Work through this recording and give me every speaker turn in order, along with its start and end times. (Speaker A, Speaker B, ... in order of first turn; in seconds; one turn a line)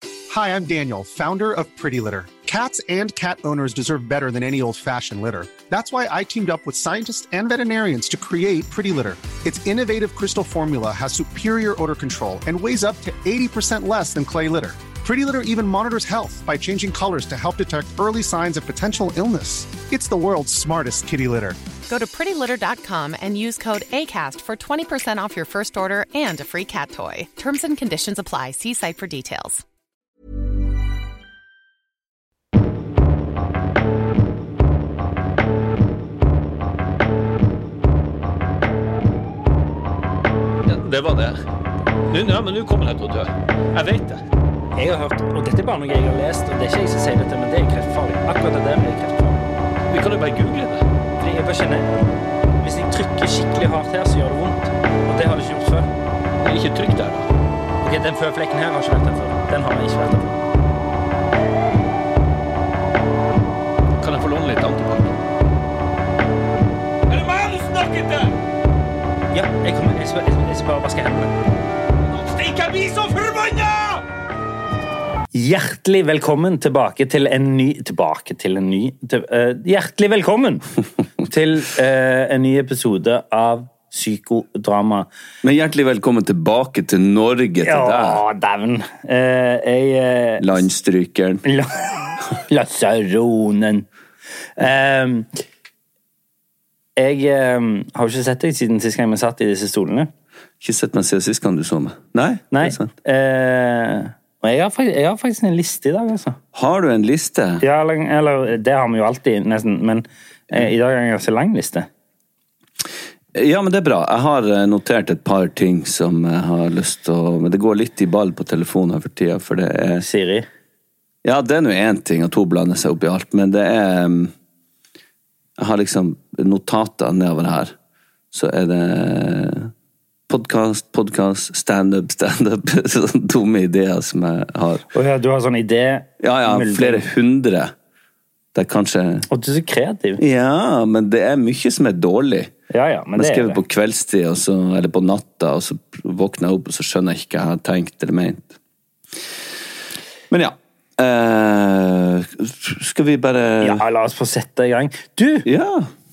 Speaker A: 0.3-21.6
Speaker B: 21.9-29.6
Speaker C: 40.6-41.4
Speaker C: 42.1-44.2
Speaker D: 44.8-49.4
Speaker C: 49.9-50.8
Speaker D: 51.2-51.9
Speaker D: 52.6-55.9
Speaker C: 56.4-57.3
Speaker D: 57.8-60.4
Speaker C: 64.0-65.2
Speaker C: 67.1-68.3
Speaker D: 69.3-71.3
Speaker C: 72.0-74.0
Speaker D: 75.3-80.6
Speaker D: 81.2-85.1
Speaker E: 85.4-88.2
Speaker D: 87.6-90.6
Speaker E: 90.4-91.4
Speaker D: 91.4-93.9
Speaker D: 94.6-95.3
Speaker D: 97.0-100.1
Speaker E: 100.6-102.9
Speaker D: 102.5-106.4
Speaker E: 106.5-107.6
Speaker D: 107.6-111.9
Speaker E: 113.3-120.0
Speaker D: 120.0-120.5
Speaker E: 121.2-124.3
Speaker E: 125.6-127.7
Speaker E: 128.3-129.7
Speaker E: 130.3-134.8
Speaker D: 134.9-137.1
Speaker E: 136.2-137.7
Speaker E: 138.5-139.3
Speaker D: 139.3-140.2
Speaker E: 140.2-142.5
Speaker D: 142.7-143.6
Speaker E: 143.2-148.6
Speaker E: 150.3-153.8
Speaker D: 153.6-155.5
Speaker E: 155.4-155.9